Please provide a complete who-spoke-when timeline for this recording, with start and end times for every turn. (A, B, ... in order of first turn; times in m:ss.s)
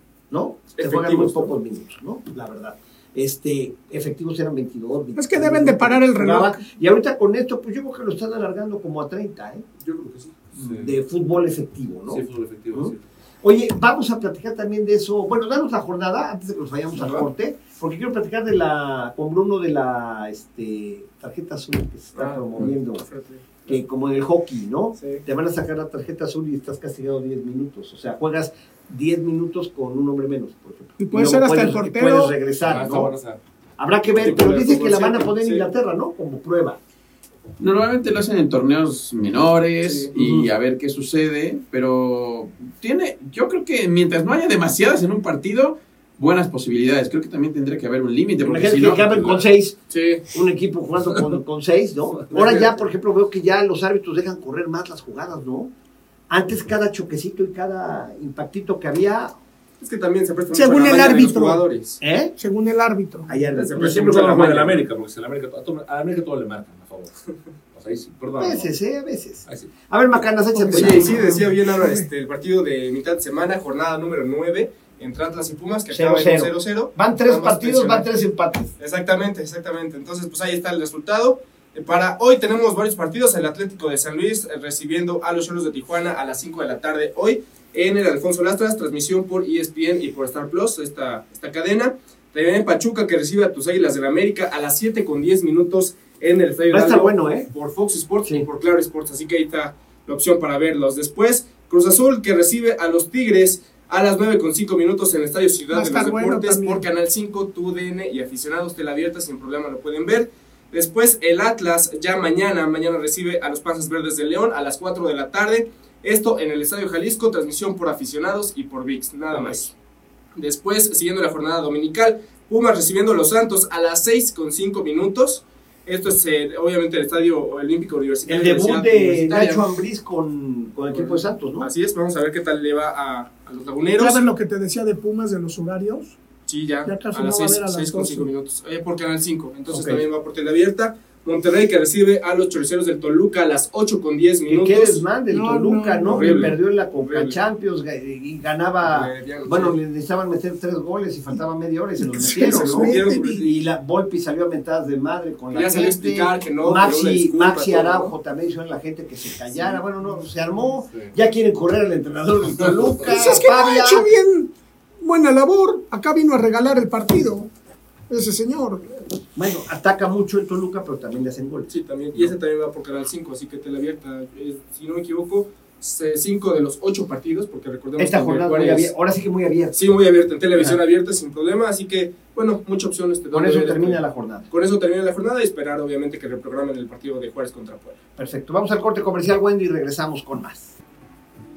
0:00.3-0:09.6 A
0:00.8-0:01.5 B
0:05.2-0:06.6 C
0:09.8-0:10.5 B
0:10.6-0:10.9 D
0:10.6-0:23.1 A
0:12.1-0:13.0 D
0:17.0-0:17.3 B
0:22.2-0:23.8 B
0:23.6-0:33.1 A
0:25.0-0:25.2 B
0:31.0-0:32.4 C
0:32.6-0:33.4 D
0:33.8-0:36.8 A
0:34.2-0:35.7 B
0:37.6-0:49.4 E
0:39.8-0:40.1 B
0:40.1-0:40.5 A
0:48.4-0:49.8 A
0:49.9-0:50.2 B
0:50.3-0:55.7 A
0:52.3-0:52.8 B
0:56.3-0:59.3 A
0:59.8-1:02.0 B
1:00.5-1:01.6 C
1:02.0-1:02.4 A
1:02.4-1:03.5 C
1:03.3-1:04.2 A
1:03.5-1:04.8 B
1:03.8-1:07.2 D
1:07.7-1:08.7 D
1:08.4-1:11.1 A
1:10.6-1:12.1 C
1:10.7-1:18.1 B
1:15.9-1:18.7 A
1:18.8-1:59.7 B
1:36.7-1:37.5 A
1:45.7-1:46.8 C
1:59.3-1:59.6 A
2:00.4-2:09.7 B
2:08.3-2:11.7 A
2:10.9-2:14.3 B
2:14.0-2:16.2 C
2:16.5-2:25.0 B
2:16.8-2:18.3 C
2:19.7-2:20.0 A
2:24.5-2:44.1 A
2:25.3-2:26.4 C
2:26.1-2:27.4 B
2:28.8-2:29.8 B
2:32.1-2:33.5 C
2:32.2-2:33.6 B
2:35.5-2:38.2 B
2:43.0-2:44.5 C
2:45.0-2:47.5 C
2:48.1-2:48.9 C
2:49.4-2:51.7 A
2:51.7-2:58.9 B
2:58.0-2:59.8 A
2:59.7-3:08.0 B
3:03.3-3:04.5 A
3:08.2-3:10.8 A